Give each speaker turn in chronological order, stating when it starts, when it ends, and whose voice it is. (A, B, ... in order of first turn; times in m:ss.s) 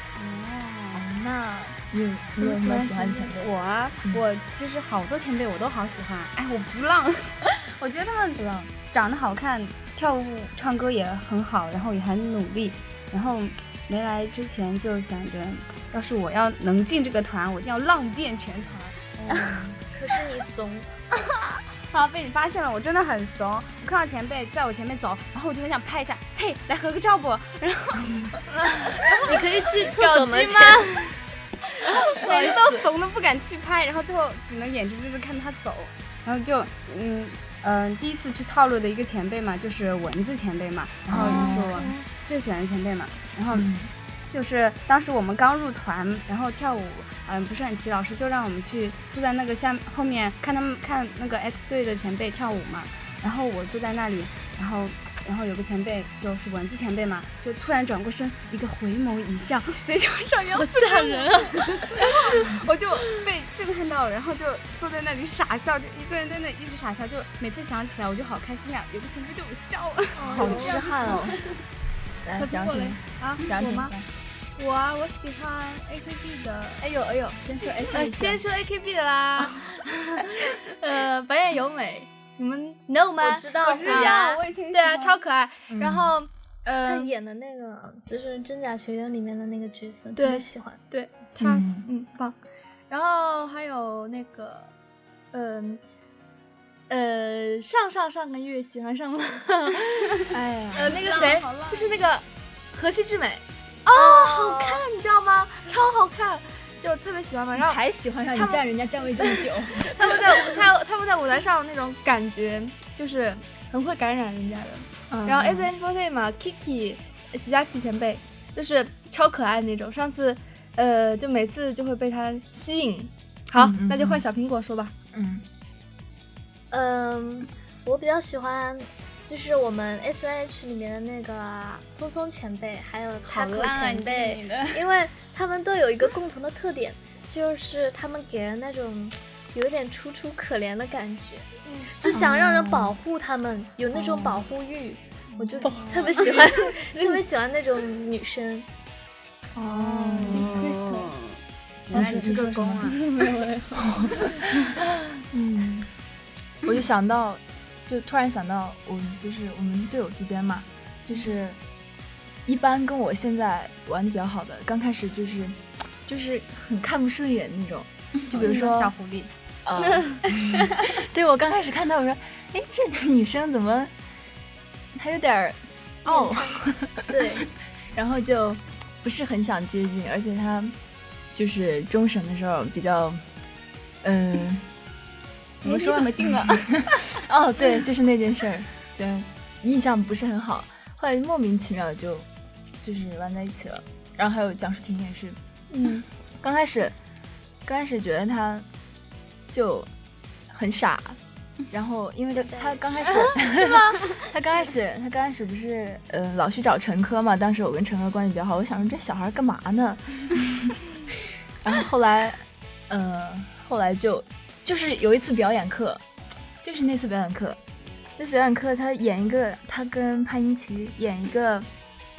0:00.2-0:01.0 A
0:00.9-0:03.5 B
0:02.4-0:03.3 C
0:03.4-0:19.6 A
0:08.4-0:08.7 B
0:19.2-0:19.8 B
0:19.8-0:20.9 D
0:21.3-0:28.2 A
0:28.5-0:31.2 C
0:29.0-0:29.4 A
0:29.2-0:31.0 D
0:32.0-0:43.7 A
0:32.2-0:32.9 B
0:41.1-0:41.9 B
0:41.2-0:42.0 C
0:43.5-0:43.9 B
0:44.3-1:11.0 A
1:00.5-1:02.5 C
1:10.2-1:11.4 C
1:10.3-1:11.5 B
1:12.2-1:14.1 B
1:12.4-1:13.9 C
1:14.6-1:16.9 C
1:16.8-1:18.4 B
1:17.9-1:27.1 C
1:23.2-1:24.2 D
1:23.6-1:25.2 A
1:25.7-1:26.1 B
1:26.8-1:30.8 D
1:30.2-1:32.4 C
1:31.4-1:31.9 B
1:32.9-1:34.7 C
1:35.3-1:35.8 C
1:36.9-1:47.8 C
1:40.3-1:41.1 B
1:40.9-1:42.1 A
1:43.9-1:44.9 D
1:47.6-1:50.1 B
1:48.3-2:04.9 C
1:55.1-1:55.7 B
2:03.6-2:04.2 B
2:05.1-2:05.5 B
2:06.7-2:28.7 D
2:13.3-2:14.8 A
2:21.7-2:21.9 C
2:22.1-2:22.9 B
2:23.9-2:24.4 B
2:25.6-2:27.2 C
2:25.8-2:26.1 A
2:29.6-2:30.5 B
2:29.7-2:31.1 C
2:30.2-2:33.3 A
2:31.9-2:33.0 B
2:32.8-2:34.9 C
2:33.7-2:34.8 B
2:35.3-2:35.9 B
2:36.6-2:41.6 B
2:42.5-2:48.9 B
2:48.3-2:49.3 A
2:49.6-2:53.9 B
2:55.0-2:57.3 B
2:56.1-2:57.5 D
2:57.9-3:00.8 B
3:01.4-3:03.2 B
3:04.0-3:04.7 B
3:05.6-3:06.9 A
3:05.6-3:12.3 B
3:12.8-3:15.4 B
3:15.7-3:16.1 C
3:16.4-3:16.9 B
3:17.6-3:18.7 B
3:19.5-3:19.9 B
3:20.5-3:21.2 B
3:21.7-3:30.7 B
3:22.3-3:23.0 D
3:23.1-3:24.1 C
3:31.6-3:36.0 B
3:36.6-3:37.6 B
3:38.2-3:41.7 B